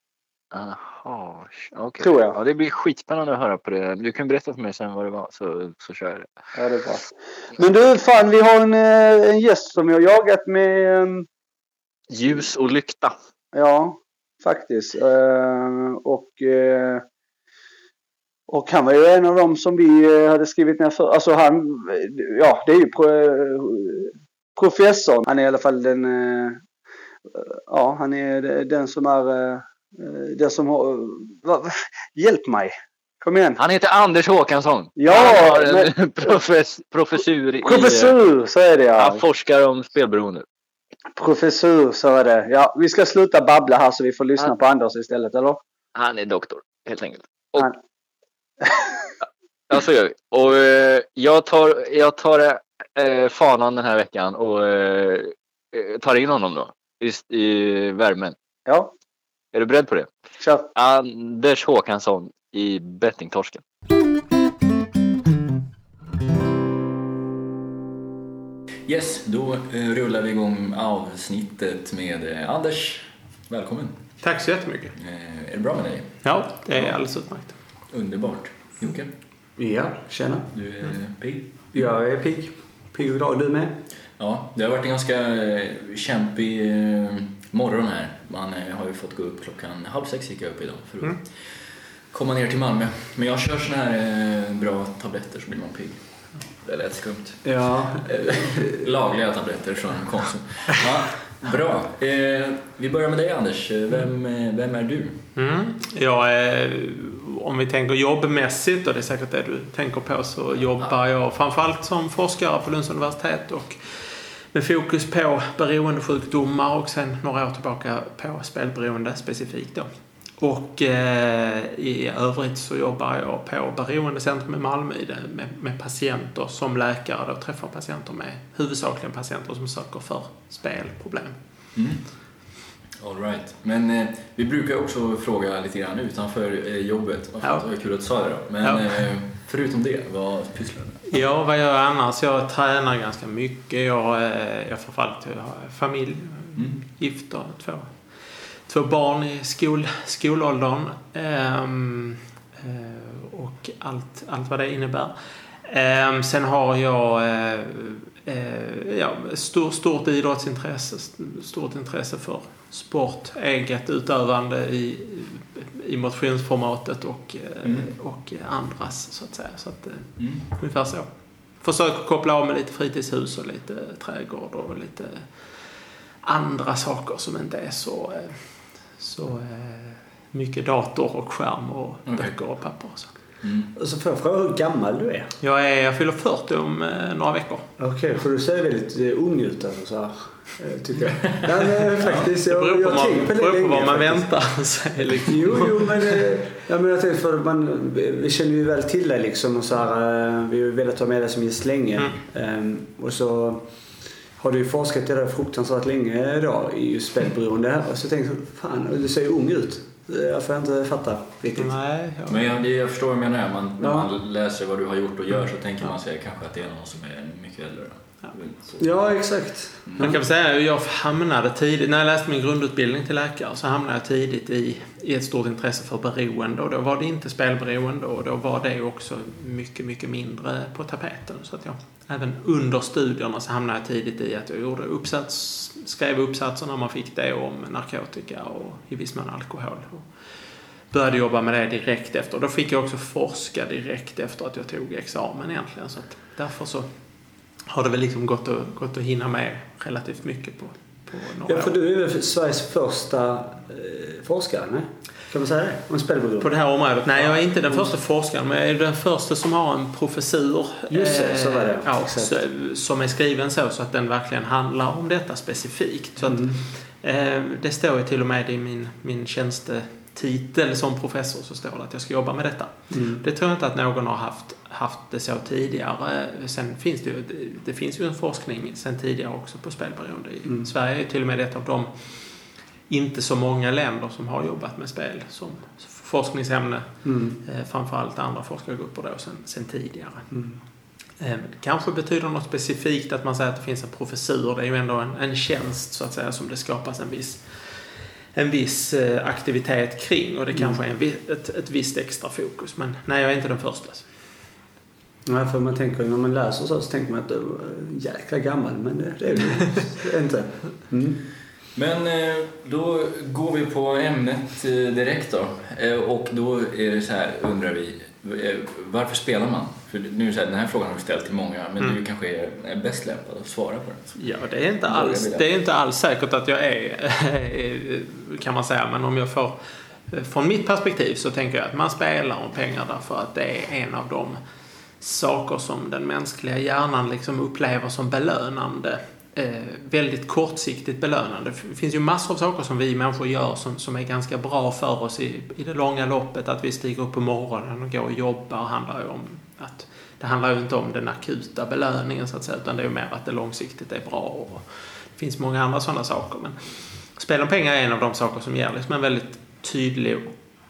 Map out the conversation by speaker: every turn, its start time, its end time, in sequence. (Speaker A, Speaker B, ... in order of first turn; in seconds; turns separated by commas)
Speaker A: 0.5-6.3, Speaker B: 2.0-2.4, Speaker B: 6.5-11.2, Speaker A: 12.1-13.1, Speaker B: 13.5-17.0, Speaker B: 18.5-26.6, Speaker B: 27.3-33.6, Speaker A: 33.6-38.1, Speaker B: 35.0-35.9, Speaker B: 37.6-39.2, Speaker A: 39.0-40.4, Speaker B: 41.2-45.6, Speaker A: 45.9-47.7, Speaker A: 49.7-58.3, Speaker A: 59.5-60.1, Speaker A: 60.7-63.6, Speaker C: 68.9-74.3, Speaker D: 74.2-74.9, Speaker C: 75.0-79.1, Speaker D: 76.2-77.5, Speaker E: 79.5-80.5, Speaker C: 80.5-81.9, Speaker E: 81.7-83.8, Speaker C: 84.2-105.2, Speaker E: 97.4-98.8, Speaker D: 105.3-119.9, Speaker D: 120.4-131.3, Speaker C: 131.7-141.1, Speaker D: 137.4-137.7, Speaker D: 138.6-139.0, Speaker D: 141.1-171.1, Speaker C: 146.6-146.8, Speaker C: 167.6-167.9, Speaker C: 170.2-170.4, Speaker D: 171.6-175.5, Speaker D: 176.2-183.1, Speaker C: 182.1-182.4, Speaker C: 183.4-183.7, Speaker E: 183.8-185.3, Speaker D: 185.4-187.7, Speaker E: 187.8-194.4, Speaker D: 192.0-196.2, Speaker C: 192.0-192.3, Speaker E: 195.1-203.7, Speaker E: 204.4-211.8, Speaker D: 211.6-212.6, Speaker C: 212.3-219.1, Speaker E: 213.8-214.1, Speaker E: 218.8-220.2, Speaker C: 219.8-220.2, Speaker D: 220.0-240.1, Speaker D: 240.9-246.9, Speaker D: 247.7-251.7, Speaker E: 251.4-256.5, Speaker D: 256.4-290.3, Speaker E: 257.1-257.9, Speaker E: 260.9-262.3, Speaker E: 266.3-266.6, Speaker E: 272.9-273.2, Speaker E: 287.0-287.4, Speaker E: 290.3-290.6, Speaker D: 291.2-304.1, Speaker E: 300.5-300.8, Speaker E: 305.2-311.3, Speaker C: 311.7-324.3, Speaker D: 324.2-329.6, Speaker C: 324.9-325.5, Speaker D: 330.1-334.4, Speaker D: 335.0-360.3